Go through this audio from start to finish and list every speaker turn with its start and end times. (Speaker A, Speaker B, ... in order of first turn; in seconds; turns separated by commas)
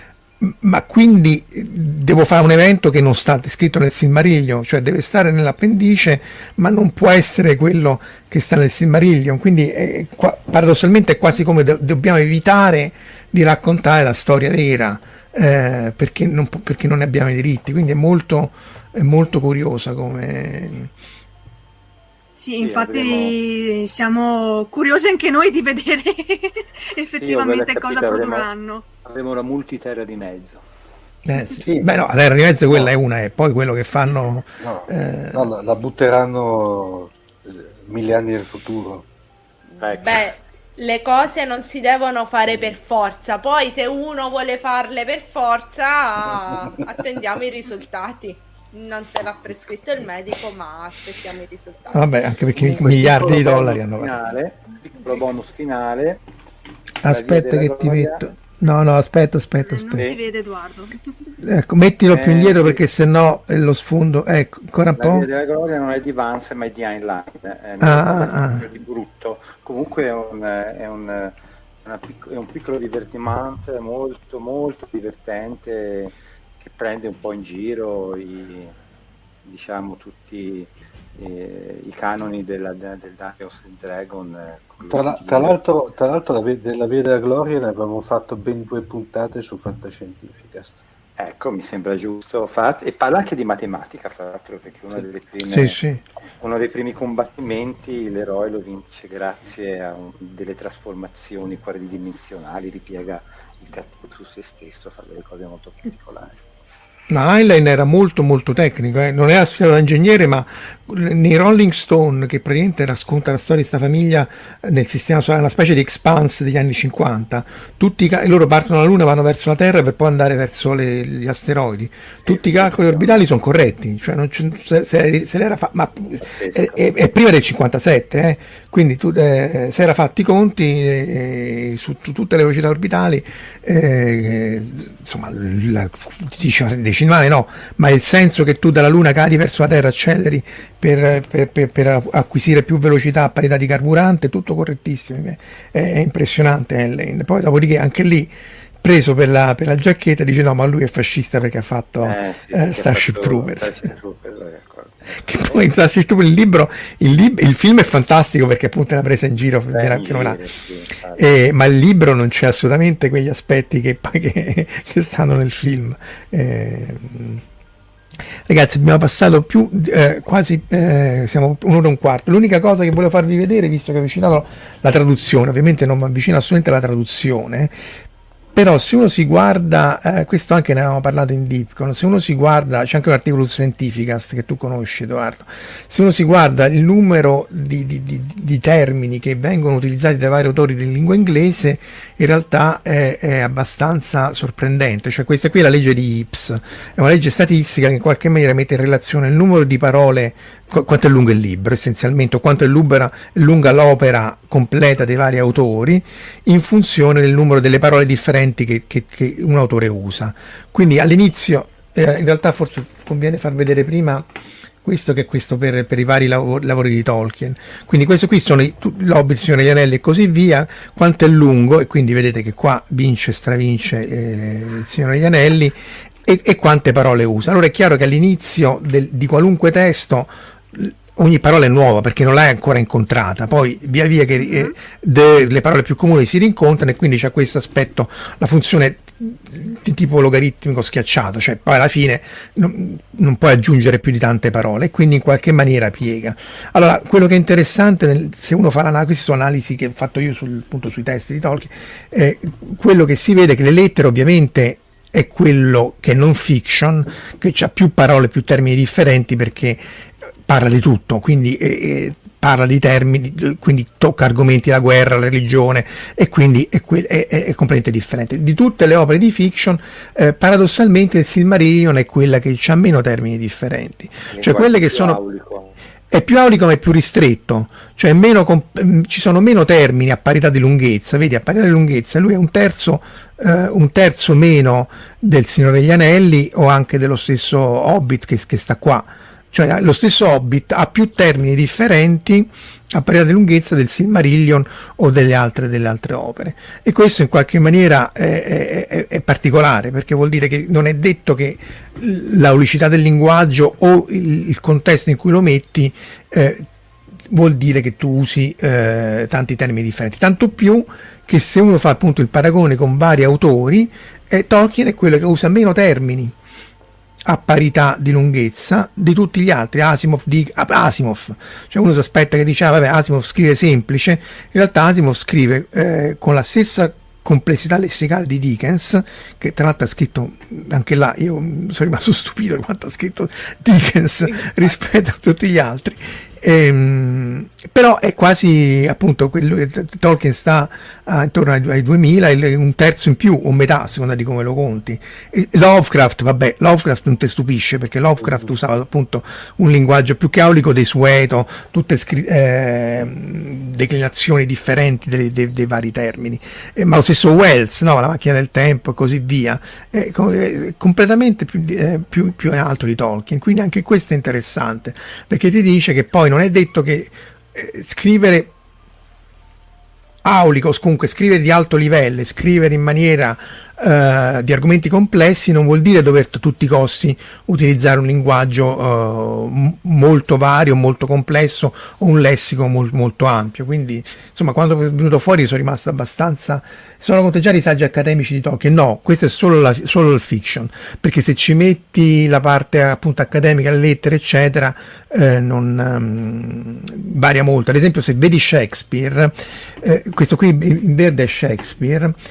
Speaker A: 0.4-20.9, Speaker B: 22.4-28.9, Speaker C: 22.6-23.4, Speaker C: 27.1-28.5, Speaker C: 29.0-30.6, Speaker A: 31.2-35.5, Speaker D: 31.6-31.9, Speaker D: 34.6-39.1, Speaker E: 39.7-52.1, Speaker C: 39.8-40.2, Speaker A: 51.9-54.2, Speaker C: 52.5-56.2, Speaker A: 57.0-60.1, Speaker C: 57.0-58.3, Speaker B: 59.6-61.0, Speaker A: 61.4-65.3, Speaker C: 62.1-62.8, Speaker C: 65.0-78.8, Speaker A: 67.8-68.7, Speaker C: 79.5-85.5, Speaker D: 84.9-90.8, Speaker C: 91.2-95.8, Speaker A: 95.5-96.0, Speaker C: 96.4-106.4, Speaker A: 107.1-153.9, Speaker C: 122.2-123.2, Speaker C: 126.2-126.8, Speaker C: 152.0-155.7, Speaker A: 155.2-160.4, Speaker C: 159.7-161.2, Speaker A: 161.2-167.4, Speaker A: 168.5-177.8, Speaker A: 178.5-214.3, Speaker A: 214.8-259.8, Speaker A: 260.4-275.2, Speaker C: 274.3-275.8, Speaker A: 276.1-306.7, Speaker A: 307.3-316.3, Speaker A: 317.2-368.5, Speaker A: 370.2-402.2